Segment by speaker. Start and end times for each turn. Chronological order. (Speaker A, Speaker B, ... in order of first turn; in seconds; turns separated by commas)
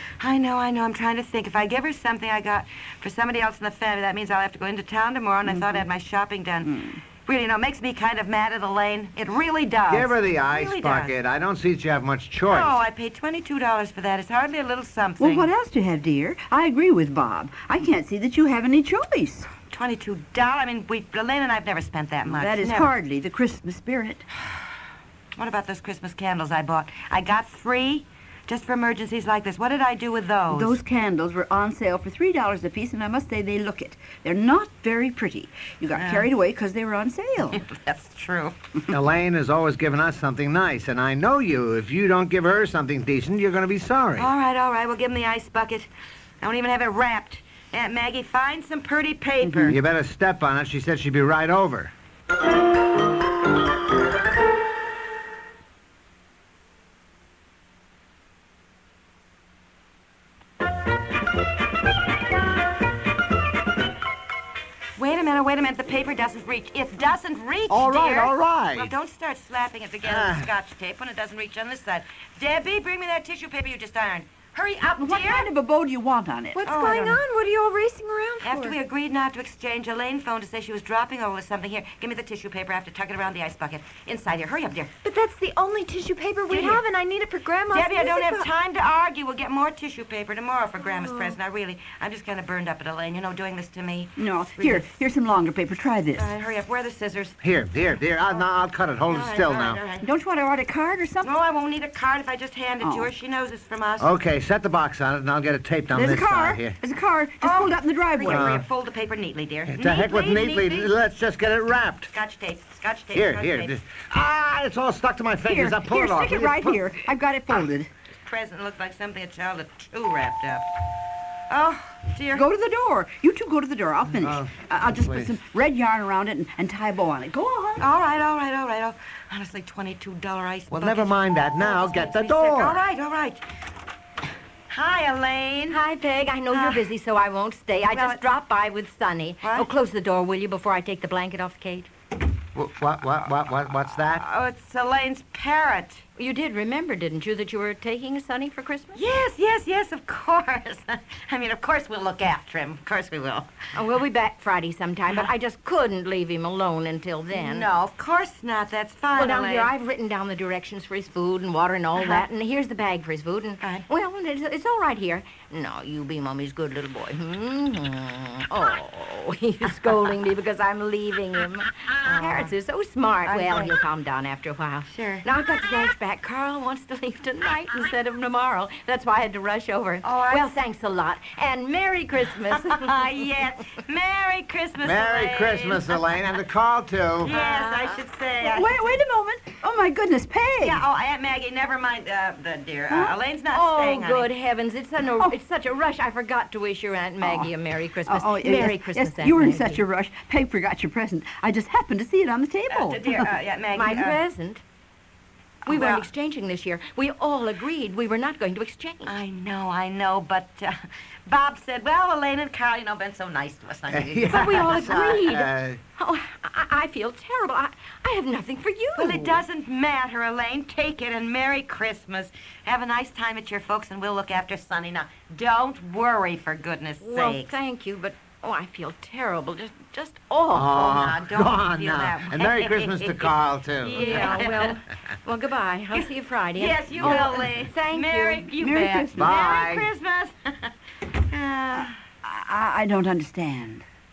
Speaker A: 0.2-6.7, Speaker B: 5.5-5.8, Speaker B: 6.7-7.0, Speaker A: 7.2-11.2, Speaker C: 9.9-12.8, Speaker A: 12.5-15.5, Speaker B: 15.2-19.5, Speaker A: 19.7-22.9, Speaker B: 22.3-24.2, Speaker A: 25.4-30.8, Speaker B: 30.5-37.6, Speaker A: 35.9-36.3, Speaker A: 37.5-38.5, Speaker C: 38.9-44.3, Speaker A: 44.2-45.9, Speaker A: 46.4-49.8, Speaker B: 49.4-49.8, Speaker C: 49.7-51.9, Speaker A: 65.0-75.5, Speaker C: 67.7-68.9, Speaker C: 70.0-70.5, Speaker B: 75.0-76.6, Speaker D: 76.5-78.8, Speaker A: 76.7-77.2, Speaker A: 78.4-84.9, Speaker D: 85.0-88.5, Speaker A: 86.5-86.8, Speaker A: 87.7-94.9, Speaker D: 90.9-91.3, Speaker B: 94.2-96.3, Speaker A: 96.2-97.4, Speaker C: 97.4-99.8, Speaker A: 99.1-100.1, Speaker B: 100.0-101.3, Speaker A: 101.2-104.1, Speaker B: 102.8-103.1, Speaker C: 104.0-106.8, Speaker B: 105.9-108.6, Speaker A: 107.4-110.9, Speaker C: 108.3-108.6, Speaker C: 109.7-112.1, Speaker A: 112.1-113.8, Speaker C: 113.1-116.8, Speaker B: 115.4-117.9, Speaker A: 118.2-120.7, Speaker A: 121.5-122.5, Speaker B: 122.3-127.9, Speaker C: 124.1-125.3, Speaker A: 127.8-133.4, Speaker C: 130.7-132.8, Speaker A: 134.7-135.8, Speaker E: 135.7-141.9, Speaker A: 136.5-136.8, Speaker A: 137.9-138.2, Speaker A: 139.4-139.7, Speaker C: 142.5-144.2, Speaker A: 144.1-146.0, Speaker E: 146.2-149.0, Speaker A: 148.9-153.5, Speaker E: 153.7-157.7, Speaker A: 157.3-159.7, Speaker E: 159.1-183.1, Speaker A: 161.9-162.2, Speaker A: 163.6-163.8, Speaker A: 172.0-172.5, Speaker A: 173.2-173.7, Speaker A: 174.9-175.2, Speaker A: 180.0-180.6, Speaker A: 182.5-186.2, Speaker C: 184.8-187.3, Speaker A: 187.2-188.8, Speaker E: 187.2-188.0, Speaker B: 188.4-190.8, Speaker A: 190.6-194.3, Speaker B: 192.9-193.2, Speaker E: 193.5-199.8, Speaker B: 197.2-197.5, Speaker B: 198.1-203.3, Speaker A: 202.7-204.2, Speaker E: 203.7-204.6, Speaker E: 205.7-209.1, Speaker A: 205.7-206.1, Speaker A: 209.0-210.8, Speaker A: 211.3-215.1, Speaker C: 213.9-215.8, Speaker E: 214.3-219.4, Speaker A: 218.9-227.5, Speaker E: 227.0-230.8, Speaker C: 230.5-234.4, Speaker A: 230.6-234.7, Speaker E: 233.9-238.4, Speaker A: 236.0-241.9, Speaker B: 238.5-239.2, Speaker C: 239.2-239.9, Speaker B: 242.2-243.8